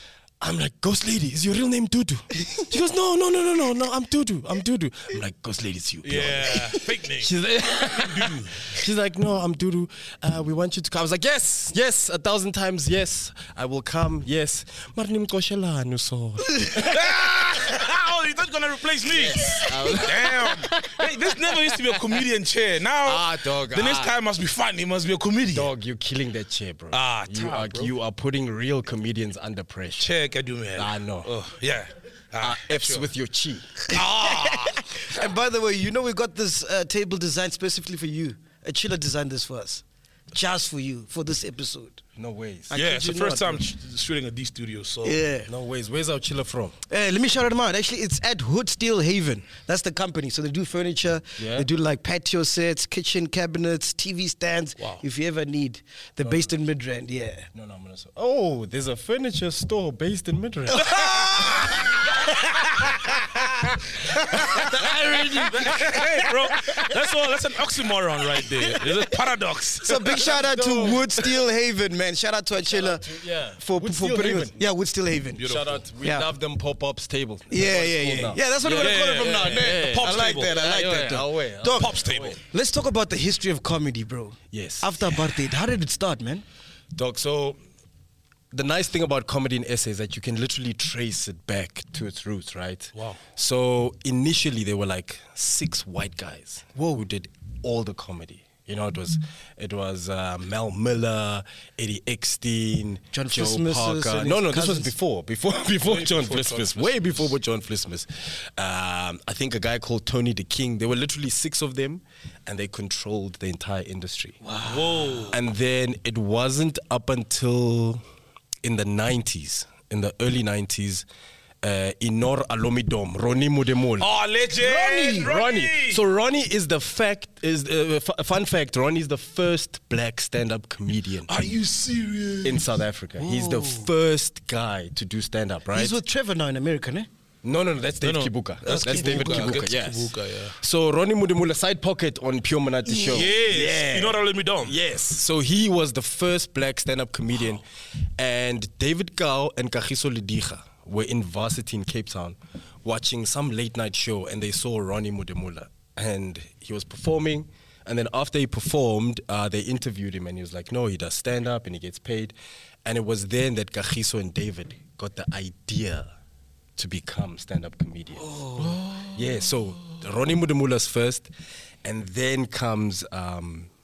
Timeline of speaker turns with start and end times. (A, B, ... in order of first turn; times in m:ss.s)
0:00.4-0:17.1 A
0:06.0-0:07.4 B
0:08.0-0:08.6 B
0:16.7-0:25.7 B
0:19.1-0:20.5 A
0:23.0-0:24.1 A
0:25.5-0:30.1 A
0:26.9-0:27.9 B
0:30.0-0:33.1 B
0:30.8-0:31.3 A
0:32.4-0:33.9 A
0:33.9-0:34.9 B
0:34.5-0:42.0 C
0:42.2-0:43.4 A
0:42.7-0:43.6 C
0:42.7-0:45.2 B
0:45.0-0:45.5 C
0:45.5-0:46.8 A
0:46.9-0:57.5 C
0:51.4-0:51.7 A
0:54.8-0:55.0 B
0:56.2-0:56.5 A
0:57.5-1:01.0 A
1:00.7-1:01.9 C
1:04.3-1:04.7 B
1:04.4-1:06.0 A
1:04.5-1:05.7 C
1:05.2-1:10.3 B
1:09.8-1:13.1 C
1:10.2-1:11.3 A
1:12.6-1:14.6 A
1:13.6-1:15.4 C
1:15.4-1:15.8 B
1:15.4-1:22.4 A
1:17.5-1:22.0 C
1:18.7-1:20.5 B
1:21.8-1:22.4 B
1:22.5-1:26.4 C
1:24.5-1:25.3 A
1:26.9-1:27.6 A
1:28.5-1:54.4 A
1:43.1-1:44.9 C
1:45.8-1:47.3 B
1:54.4-1:55.3 C
1:54.7-1:55.4 B
1:55.3-1:58.0 A
1:58.6-2:01.1 A
2:01.6-2:04.1 A
2:04.0-2:06.0 B
2:04.6-2:05.3 C
2:05.1-2:11.4 A
2:11.3-2:12.7 B
2:12.4-2:16.0 A
2:13.2-2:13.9 C
2:15.7-2:17.1 C
2:17.4-2:27.6 A
2:18.0-2:20.6 B
2:19.0-2:19.3 C
2:22.8-2:23.3 C
2:23.1-2:24.8 B
2:28.2-2:46.1 A
2:46.8-2:48.3 A
2:48.2-2:48.8 C
2:48.6-2:49.6 B
2:49.1-2:51.3 A
2:51.8-2:53.7 A